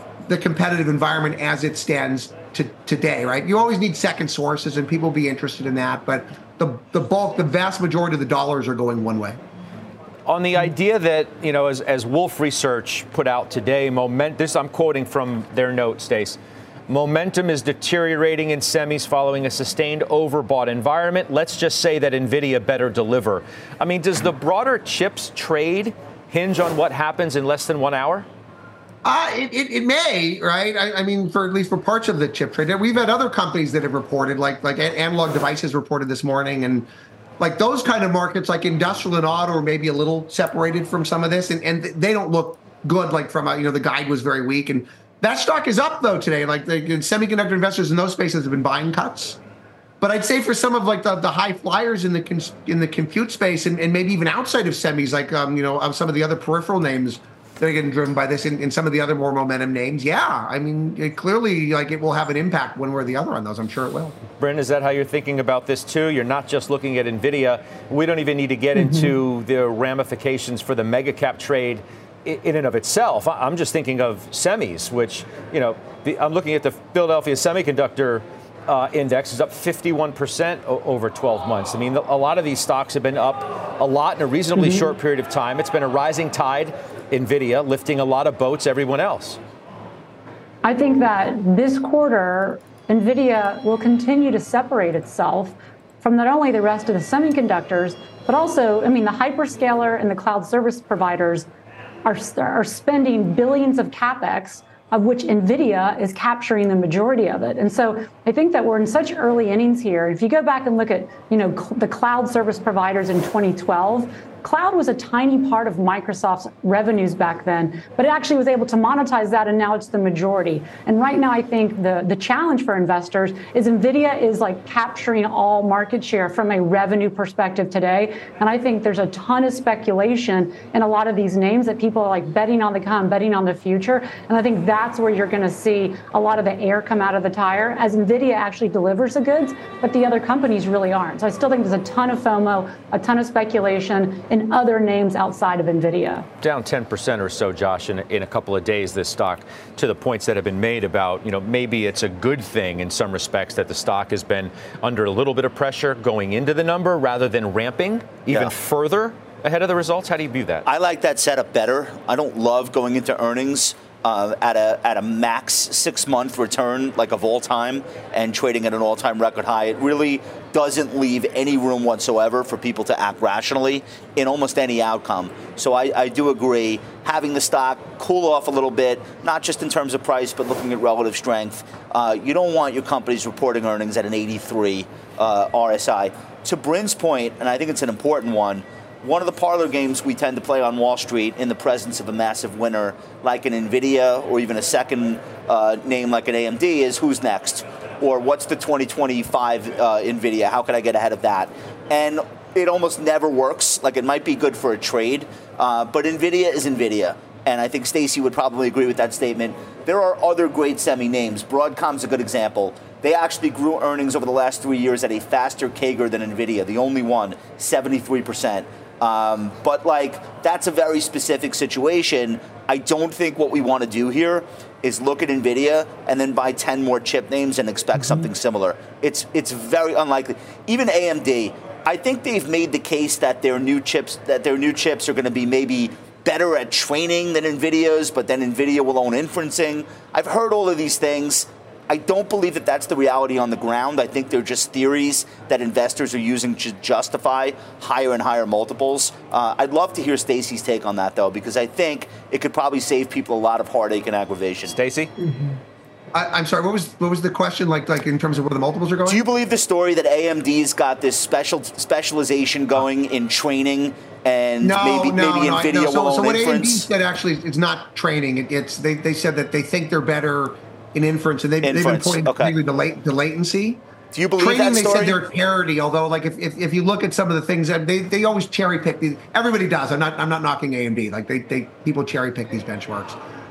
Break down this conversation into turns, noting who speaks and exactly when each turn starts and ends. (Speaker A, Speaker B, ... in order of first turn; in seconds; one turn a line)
Speaker A: 0.3-9.4
Speaker B: 10.3-16.4
Speaker B: 16.9-28.3
Speaker A: 29.0-49.4
Speaker A: 50.0-64.2
Speaker B: 64.4-89.4
Speaker C: 68.8-69.2
Speaker C: 84.6-84.9
Speaker C: 90.6-101.5
Speaker C: 102.0-146.3
Speaker B: 146.4-160.7
Speaker D: 160.7-254.7
Speaker B: 254.7-255.1
Speaker A: 256.1-259.2
Speaker D: 259.1-266.9
Speaker A: 264.6-273.9
Speaker D: 271.6-272.5
Speaker D: 274.1-275.2
Speaker A: 274.4-283.2